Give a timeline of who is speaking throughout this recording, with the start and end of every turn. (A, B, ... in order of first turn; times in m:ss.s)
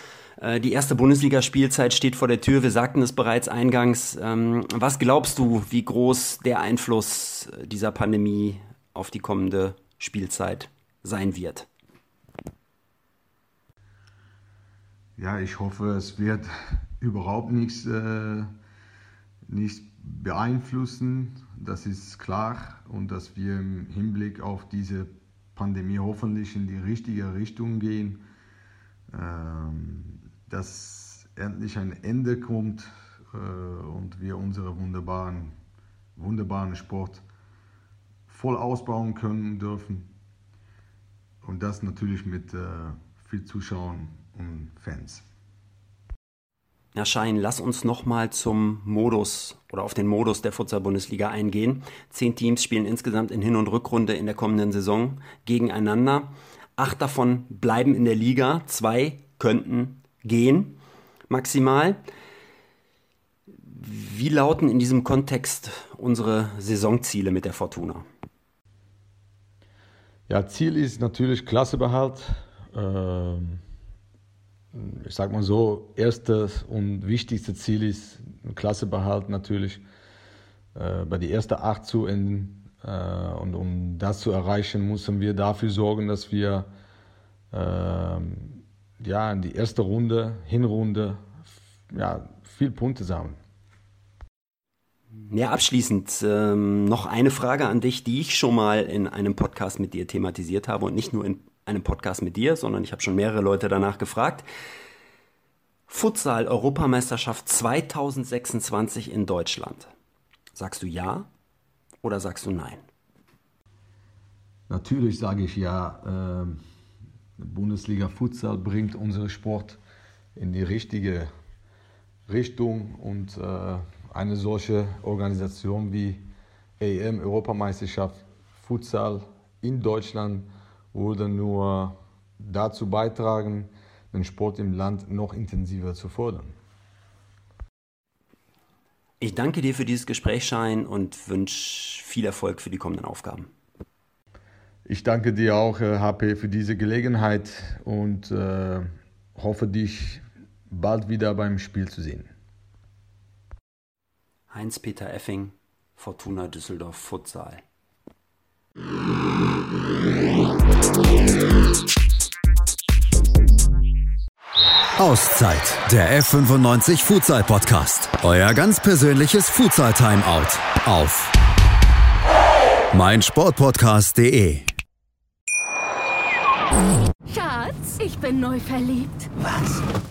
0:00.4-0:11.7 A
0:15.2-0:18.5 B
0:19.5-0:28.2 B
0:29.1-0:35.5 B
0:36.2-0:37.2 B
0:38.3-0:40.1 B
0:41.4-0:45.2 B
0:46.9-1:02.0 A
1:03.6-1:08.0 A
1:10.3-1:13.6 B
1:14.7-1:19.8 B
1:20.7-1:26.7 B
1:27.5-1:31.2 B
1:31.9-1:33.4 B
1:35.3-1:44.4 A
1:45.9-1:49.9 A
1:50.5-1:51.3 A
1:52.0-1:52.8 A
1:54.7-1:56.6 B
1:57.4-1:59.8 B
2:00.4-2:01.3 B
2:02.3-2:06.2 B
2:06.8-2:16.5 B
2:19.2-2:23.5 A
2:24.8-2:32.3 B
2:34.5-2:37.6 A
2:45.0-2:51.3 C
2:52.9-2:54.7 C
2:57.2-2:59.3 D